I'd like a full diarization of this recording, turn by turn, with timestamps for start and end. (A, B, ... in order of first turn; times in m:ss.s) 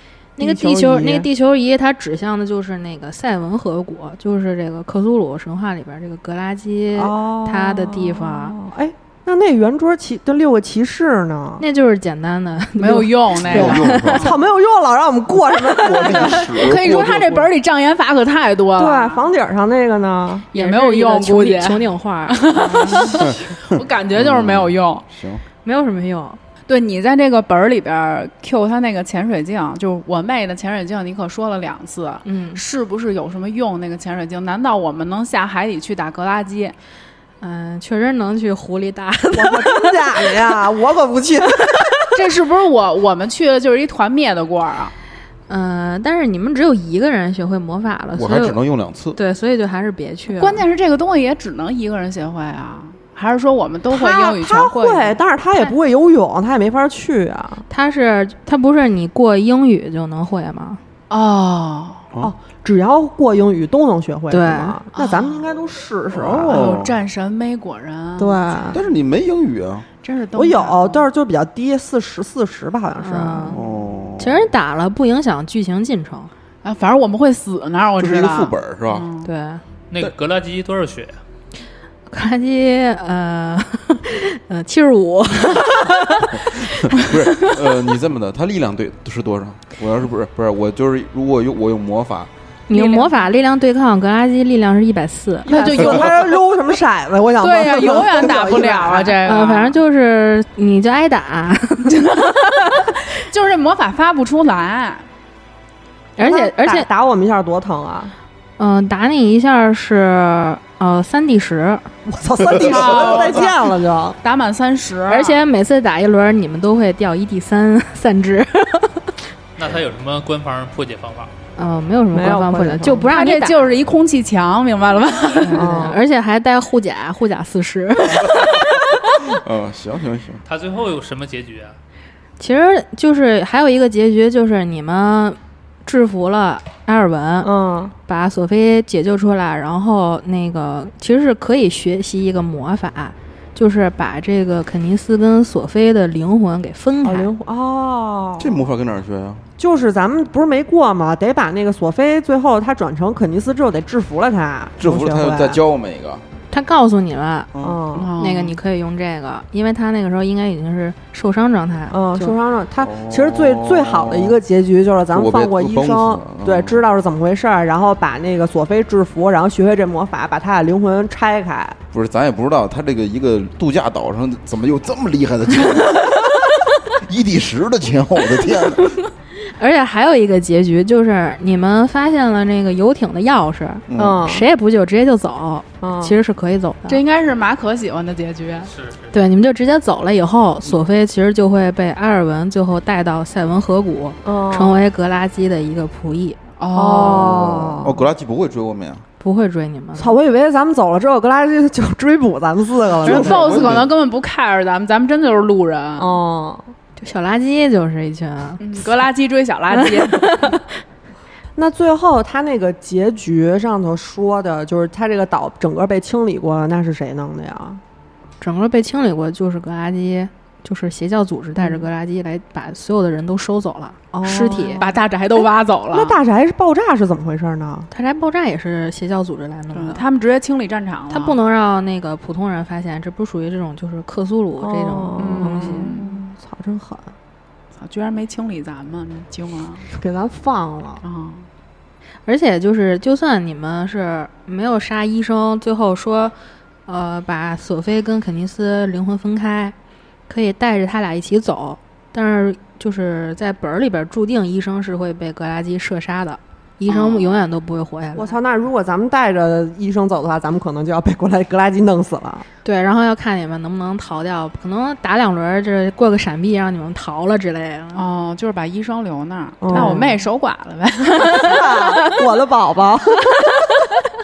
0:00.4-0:08.6 A
0:00.4-0:01.3 B
0:06.9-0:11.6 B
0:11.6-0:14.2 A
0:12.8-0:14.4 C
0:13.5-0:14.4 D
0:13.5-0:16.5 B
0:15.7-0:17.5 D
0:16.0-0:19.3 C
0:18.8-0:20.5 B
0:20.5-0:23.3 A
0:20.5-0:25.0 C
0:23.1-0:25.4 D
0:25.6-0:26.4 A
0:26.7-0:36.7 C
0:32.2-0:32.6 A
0:37.4-0:40.4 A
0:39.3-0:42.1 B
0:42.1-0:44.9 C
0:45.5-0:48.6 A
0:48.1-0:49.2 D
0:49.1-0:50.6 A
0:50.3-0:55.2 C
0:53.9-0:57.6 B
0:57.7-1:00.8 A
1:01.1-1:02.1 C
1:02.2-1:06.6 B
1:04.3-1:04.8 A
1:04.9-1:05.5 C
1:06.1-1:07.0 D
1:06.5-1:08.9 C
1:08.2-1:08.8 B
1:08.7-1:09.9 D
1:10.0-1:11.1 C
1:10.4-1:13.6 B
1:13.0-1:13.6 A
1:13.5-1:14.5 D
1:14.2-1:16.3 A
1:16.6-1:19.3 C
1:18.0-1:19.1 D
1:19.2-1:19.6 A
1:19.9-1:21.2 E
1:22.1-1:27.1 A
1:26.3-1:32.3 D
1:32.7-1:35.5 A
1:32.7-1:33.1 C
1:35.4-1:39.2 B
1:35.5-1:36.6 C
1:37.4-1:39.8 C
1:39.2-1:42.3 A
1:41.9-1:45.1 C
1:46.2-1:46.9 A
1:46.2-1:48.1 B
1:48.6-1:51.9 A
1:52.0-1:54.2 B
1:52.6-1:53.7 C
1:54.2-1:55.4 C
1:55.1-1:59.1 A
1:59.6-2:01.3 E
2:01.6-2:03.6 A
2:02.1-2:03.1 B
2:03.1-2:05.7 C
2:05.4-2:09.2 A
2:05.6-2:06.0 B
2:08.2-2:10.4 D
2:10.4-2:11.7 E
2:12.4-2:17.5 A
2:17.4-2:17.9 B
2:18.1-2:27.3 A
2:27.0-2:28.7 B
2:28.4-2:29.4 D
2:29.6-2:35.6 B
2:34.8-2:36.2 D
2:36.5-2:37.5 A
2:37.5-2:37.8 D
2:37.6-2:38.1 B
2:37.9-2:38.6 C
2:38.2-2:42.4 A
2:41.9-2:51.8 B
2:42.8-2:44.4 D
2:45.1-2:46.8 D
2:51.9-2:59.0 D
2:59.3-3:07.0 A
3:03.9-3:04.2 D
3:03.9-3:04.5 B
3:05.8-3:06.2 B
3:06.9-3:08.7 C
3:08.7-3:09.1 E
3:09.1-3:16.4 A
3:14.2-3:14.8 B
3:16.6-3:17.3 C
3:16.7-3:18.0 B
3:17.0-3:19.0 D
3:19.2-3:20.2 A
3:20.0-3:23.7 B
3:22.9-3:23.9 D
3:23.0-3:26.2 C
3:26.0-3:26.7 B
3:27.0-3:28.7 A
3:28.6-3:30.6 C
3:29.7-3:30.7 A
3:31.6-3:37.8 B
3:38.4-3:44.8 A
3:44.1-3:47.9 B
3:44.8-3:46.2 C
3:47.9-3:50.0 A
3:49.7-3:51.4 C
3:51.1-3:56.0 A
3:54.6-3:57.1 B
3:55.2-3:56.2 C
3:57.8-3:59.9 C
3:59.9-4:01.0 B
4:01.0-4:01.5 C
4:02.2-4:06.4 A
4:06.9-4:09.7 A
4:10.3-4:18.4 A
4:16.9-4:17.4 C
4:18.1-4:22.5 B
4:22.6-4:28.0 A
4:27.9-4:32.2 C
4:29.6-4:30.2 B
4:29.7-4:30.0 A
4:31.3-4:33.8 B